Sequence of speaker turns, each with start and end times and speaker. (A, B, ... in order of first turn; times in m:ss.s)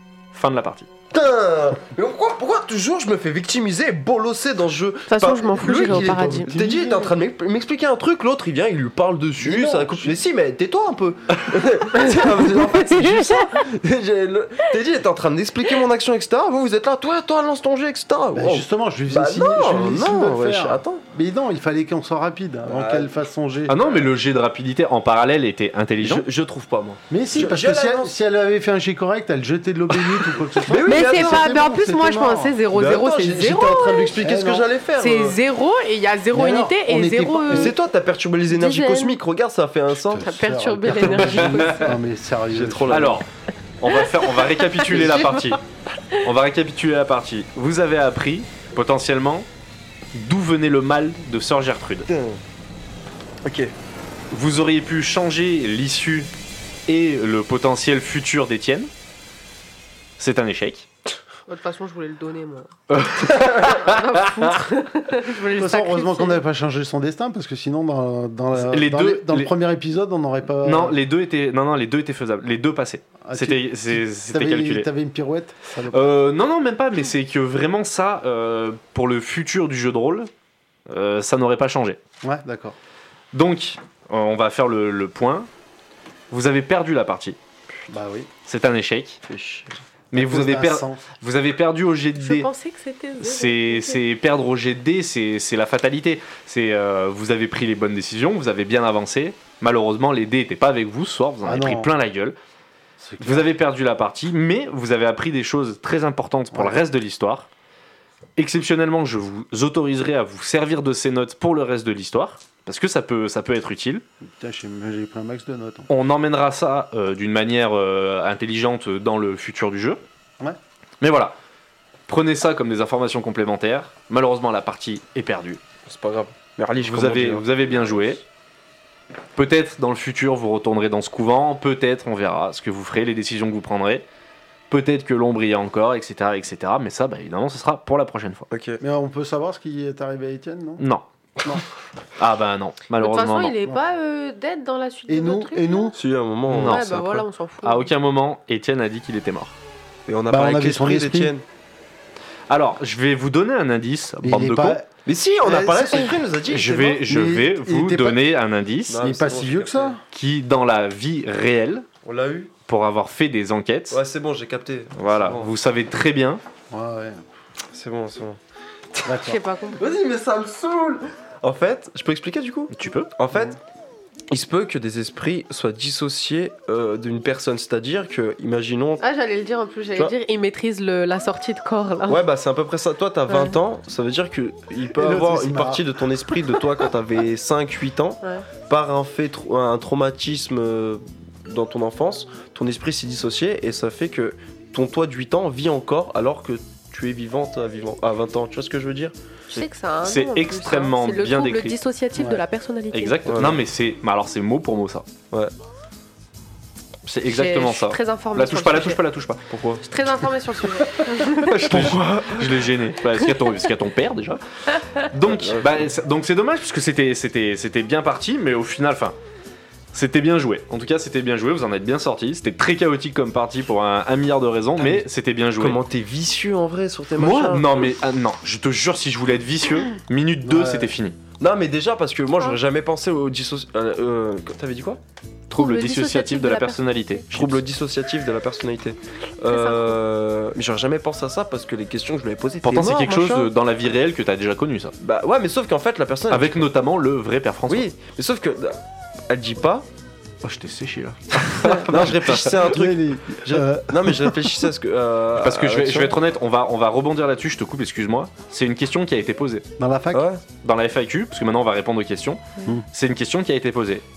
0:00.3-0:00.9 A
0:01.1-0:21.0 B
0:05.1-0:06.5 C
0:06.5-0:07.1 D
0:09.4-0:10.2 D
0:11.9-0:13.6 C
0:18.3-0:24.1 D
0:22.7-0:23.1 B
0:23.7-0:26.2 A
0:26.0-0:28.1 B
0:27.1-0:32.6 D
0:30.1-0:31.6 B
0:30.8-0:34.2 C
0:32.7-0:35.4 B
0:34.2-0:34.7 D
0:35.0-0:37.7 C
0:36.3-0:37.7 D
0:37.5-0:40.4 B
0:38.5-0:39.2 C
0:40.0-0:43.2 D
0:40.2-0:42.0 C
0:41.1-0:41.6 B
0:42.5-0:43.2 B
0:42.9-0:43.3 A
0:43.8-0:45.6 A
0:43.9-0:45.6 C
0:44.8-0:45.3 B
0:46.2-0:49.5 A
0:50.1-0:52.1 A
0:52.1-0:52.4 B
0:53.4-0:53.7 B
0:54.3-0:56.3 A
0:56.9-0:58.9 A
1:00.2-1:00.9 A
1:01.5-1:06.4 C
1:02.9-1:04.6 A
1:05.6-1:11.0 D
1:08.6-1:09.5 A
1:10.6-1:14.9 A
1:13.2-1:16.2 D
1:15.9-1:20.3 A
1:20.9-1:22.0 A
1:22.2-1:22.7 D
1:23.3-1:25.5 A
1:26.3-1:27.4 A
1:27.9-1:28.3 D
1:28.4-1:29.2 A
1:29.3-1:29.8 B
1:30.1-1:32.5 A
1:30.1-1:31.0 D
1:32.2-1:34.0 C
1:33.2-1:42.4 A
1:41.4-1:41.9 D
1:43.0-1:43.5 D
1:43.2-1:47.5 A
1:46.5-1:46.8 D
1:48.4-1:54.0 A
1:54.3-1:55.9 D
1:55.9-2:00.0 A
2:01.0-2:01.4 A
2:02.1-2:05.6 A
2:05.8-2:07.5 B
2:06.8-2:08.2 A
2:09.4-2:14.0 A
2:14.7-2:18.5 A
2:18.5-2:18.8 B
2:18.8-2:20.8 D
2:20.8-2:21.0 A
2:22.2-2:23.6 A
2:23.0-2:25.9 C
2:25.1-2:26.0 D
2:25.9-2:26.8 B
2:26.5-2:29.6 A
2:26.6-2:27.9 C
2:30.1-2:31.4 B
2:30.3-2:31.3 D
2:32.5-2:34.8 A
2:34.2-2:34.9 D
2:35.0-2:37.0 B
2:35.4-2:36.2 D
2:36.5-2:39.0 A
2:37.0-2:38.2 D
2:38.9-2:40.0 B
2:39.0-2:40.0 D
2:40.1-2:41.9 A
2:42.0-2:42.5 B
2:42.7-2:44.0 A
2:43.9-2:45.5 B
2:45.0-2:46.4 A
2:46.7-2:47.2 D
2:47.7-2:48.4 B
2:49.0-2:49.4 D
2:49.2-2:49.8 C
2:49.8-2:53.6 B
2:52.7-2:53.1 A
2:54.3-2:59.0 B
2:59.0-3:02.2 C
3:02.1-3:19.1 B
3:03.3-3:03.6 C
3:04.9-3:06.0 D
3:19.5-3:23.4 C
3:19.5-3:21.8 A
3:22.1-3:22.4 D
3:22.9-3:25.0 A
3:23.3-3:23.6 B
3:27.0-3:29.4 A
3:27.3-3:29.0 C
3:29.5-3:29.8 B
3:29.8-3:31.8 C
3:31.4-3:32.7 B
3:31.6-3:39.2 A
3:35.2-3:35.9 B
3:39.9-3:45.8 A
3:44.8-3:45.0 B
3:45.6-3:47.8 B
3:47.2-3:51.2 A
3:50.4-3:50.9 D
3:51.4-3:55.0 B
3:55.5-3:57.6 A
3:55.6-3:57.2 C
3:57.3-4:03.5 B
3:59.5-4:00.0 C
4:02.6-4:04.9 A
4:05.0-4:06.6 B
4:06.3-4:07.9 A
4:07.7-4:09.9 B
4:10.4-4:12.6 A
4:11.7-4:16.2 B
4:12.6-4:14.7 D
4:15.4-4:19.6 A
4:19.8-4:20.3 D
4:20.1-4:20.4 B
4:20.6-4:24.0 A